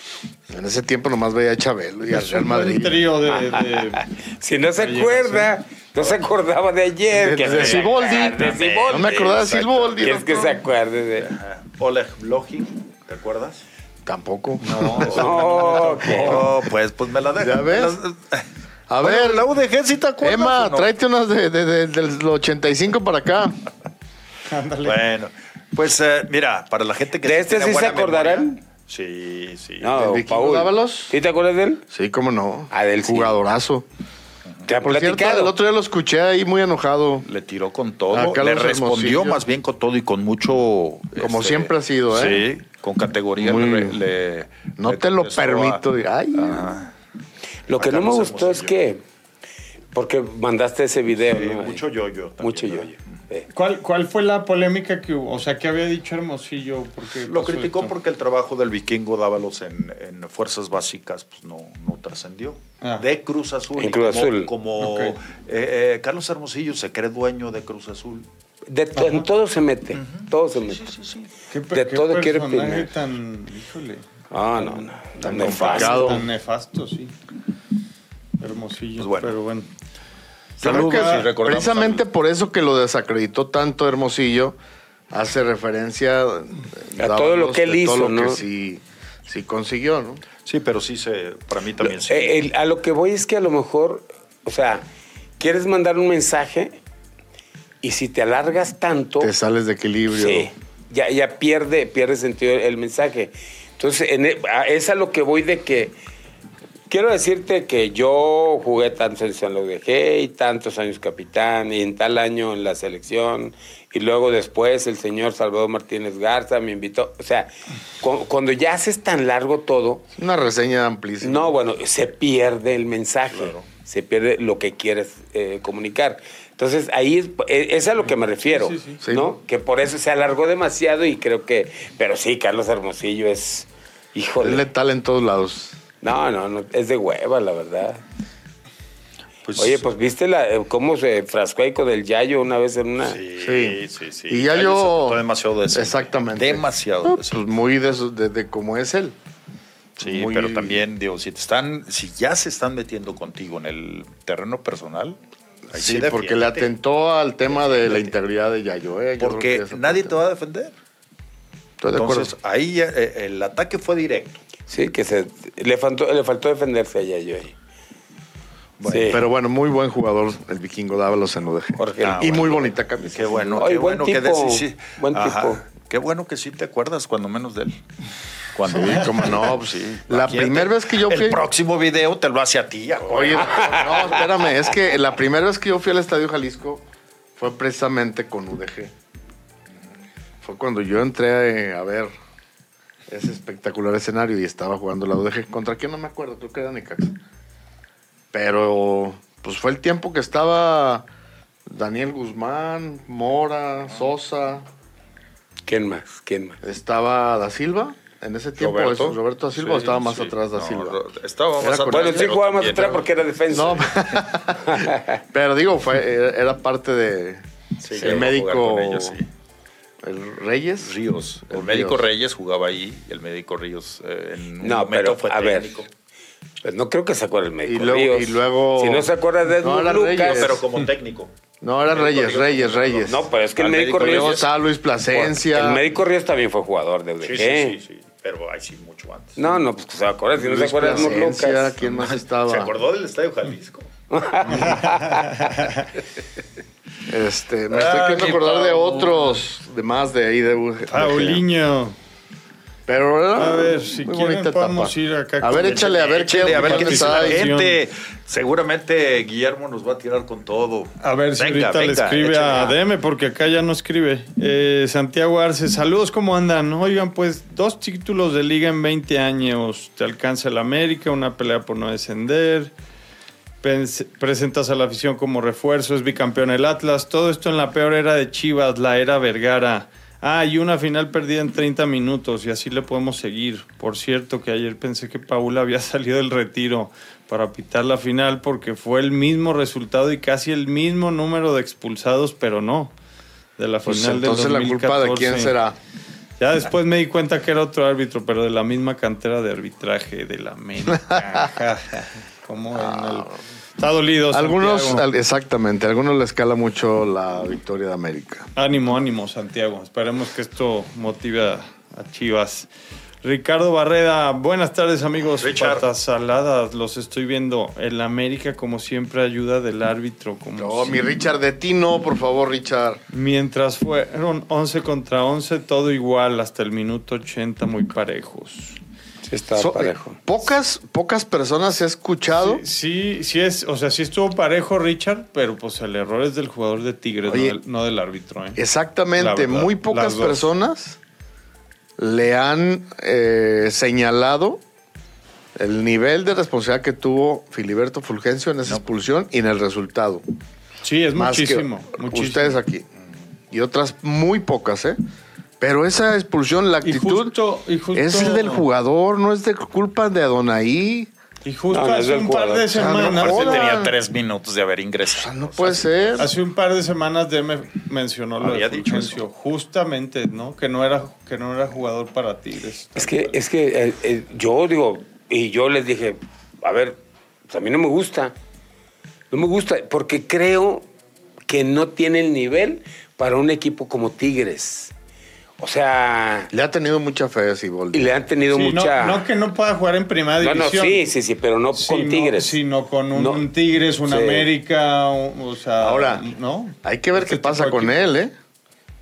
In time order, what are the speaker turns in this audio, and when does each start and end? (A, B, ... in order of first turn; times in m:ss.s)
0:00.5-0:03.1 A
0:02.1-0:04.1 B
0:03.3-0:09.4 C
0:04.8-0:05.5 B
0:07.1-0:10.6 A
0:07.4-0:10.4 D
0:10.0-0:11.3 C
0:11.2-0:13.6 D
0:14.0-0:15.3 A
0:14.6-0:16.5 B
0:14.9-0:18.5 D
0:15.0-0:16.5 C
0:17.4-0:18.0 A
0:18.9-0:19.5 A
0:19.0-0:20.9 D
0:20.2-0:23.6 A
0:24.5-0:25.0 B
0:24.8-0:29.9 D
0:27.2-0:28.6 C
0:29.8-0:31.8 C
0:29.9-0:31.1 A
0:31.9-0:33.8 A
0:32.7-0:33.4 C
0:34.7-0:35.5 C
0:34.7-0:37.2 A
0:37.2-0:46.9 D
0:38.1-0:39.4 A
0:41.2-0:42.5 A
0:43.4-0:44.0 A
0:44.8-0:46.8 A
0:47.7-0:49.0 C
0:47.7-0:48.8 D
0:49.9-0:51.8 C
0:51.2-0:52.9 D
0:52.4-0:53.5 C
0:53.5-0:57.9 B
0:57.2-1:08.3 D
1:02.8-1:03.0 B
1:03.8-1:04.5 C
1:04.8-1:05.2 B
1:08.7-1:10.9 C
1:09.0-1:09.2 B
1:09.9-1:11.3 D
1:11.5-1:14.0 B
1:11.7-1:12.9 C
1:14.3-1:16.2 C
1:14.6-1:17.1 B
1:15.2-1:16.3 A
1:18.4-1:19.7 B
1:19.0-1:19.4 D
1:20.6-1:22.0 D
1:20.6-1:24.6 A
1:20.6-1:21.3 B
1:25.1-1:30.2 A
1:27.0-1:28.4 C
1:30.4-1:32.4 D
1:31.8-1:34.8 C
1:35.4-1:36.8 C
1:37.8-1:39.3 C
1:39.2-1:40.5 A
1:40.1-1:45.9 C
1:46.9-2:00.0 C
2:00.2-2:01.6 A
2:01.2-2:14.6 C
2:03.3-2:03.6 D
2:08.4-2:09.0 B
2:09.0-2:09.3 A
2:14.4-2:15.8 A
2:16.0-2:18.0 C
2:19.4-2:19.8 D
2:19.6-2:23.2 C
2:23.0-2:27.4 D
2:23.4-2:29.2 A
2:30.0-2:30.8 A
2:30.0-2:35.2 D
2:35.7-2:36.7 D
2:35.7-2:40.2 A
2:39.2-2:40.7 D
2:41.8-2:42.3 A
2:41.9-2:44.4 D
2:44.7-2:47.5 C
2:48.8-2:49.2 D
2:48.8-2:49.2 C
2:48.9-2:53.6 A
2:51.8-2:52.7 C
2:52.0-2:57.8 D
2:53.6-2:55.6 C
2:58.5-3:04.1 D
2:58.6-3:01.4 A
3:03.0-3:06.8 A
3:03.4-3:04.2 C
3:07.4-3:08.9 A
3:10.4-3:12.1 A
3:13.1-3:17.2 A
3:18.3-3:21.0 A
3:21.7-3:24.6 A
3:25.7-3:26.6 C
3:26.6-3:31.0 A
3:28.6-3:33.1 D
3:31.6-3:32.4 A
3:31.9-3:35.1 C
3:33.5-3:37.4 A
3:37.8-3:39.3 D
3:37.9-3:39.2 A
3:38.0-3:38.3 C
3:40.0-3:40.9 A
3:40.8-3:45.9 D
3:41.5-3:42.0 A
3:44.6-3:45.8 C
3:46.6-3:50.6 C
3:47.6-3:50.6 A
3:50.2-3:51.3 D
3:51.6-3:53.2 A
3:51.9-3:54.5 D
3:53.0-3:54.5 C
3:53.9-3:55.8 A
3:55.1-3:57.8 C
3:57.2-3:59.6 D
3:59.4-4:01.8 C
4:00.4-4:02.7 A
4:01.8-4:03.9 D
4:04.1-4:05.5 C
4:04.5-4:05.8 B
4:07.1-4:11.4 A
4:07.7-4:09.4 D
4:10.9-4:12.0 B
4:12.9-4:17.5 A
4:13.4-4:15.9 B
4:15.6-4:22.8 D
4:16.4-4:17.8 B
4:21.0-4:32.7 B
4:33.6-4:52.9 B
4:53.6-4:55.5 B
4:53.8-4:55.8 A
4:56.4-5:05.0 B
5:02.7-5:03.4 A
5:04.3-5:08.5 A
5:08.6-5:12.7 B
5:13.2-5:21.0 B
5:15.4-5:15.9 D
5:20.6-5:23.0 A
5:23.1-5:28.8 B
5:29.3-5:30.2 C
5:29.6-5:32.6 A
5:32.4-5:38.6 B
5:37.2-5:37.6 A
5:38.6-5:41.0 A
5:39.2-5:40.5 B
5:42.0-5:44.6 A
5:45.6-5:50.2 A
5:50.8-5:52.6 B
5:51.1-5:52.8 A
5:53.5-5:55.0 A
5:55.6-5:57.4 A
5:56.8-5:58.6 B
5:57.9-6:01.1 A
6:01.4-6:03.7 B
6:01.7-6:03.0 C
6:02.7-6:03.9 A
6:03.0-6:06.2 D
6:05.1-6:06.3 A
6:06.2-6:13.3 B
6:08.4-6:09.2 D
6:13.0-6:17.0 C
6:17.5-6:18.3 C
6:19.3-6:20.8 C
6:21.5-6:24.9 C
6:25.6-6:26.5 C
6:26.5-6:28.1 A
6:27.9-6:29.2 C
6:28.5-6:31.0 B
6:30.4-6:32.6 C
6:31.7-6:38.1 B
6:33.1-6:33.5 C
6:34.0-6:34.5 C
6:35.8-6:36.3 A
6:36.8-6:38.3 A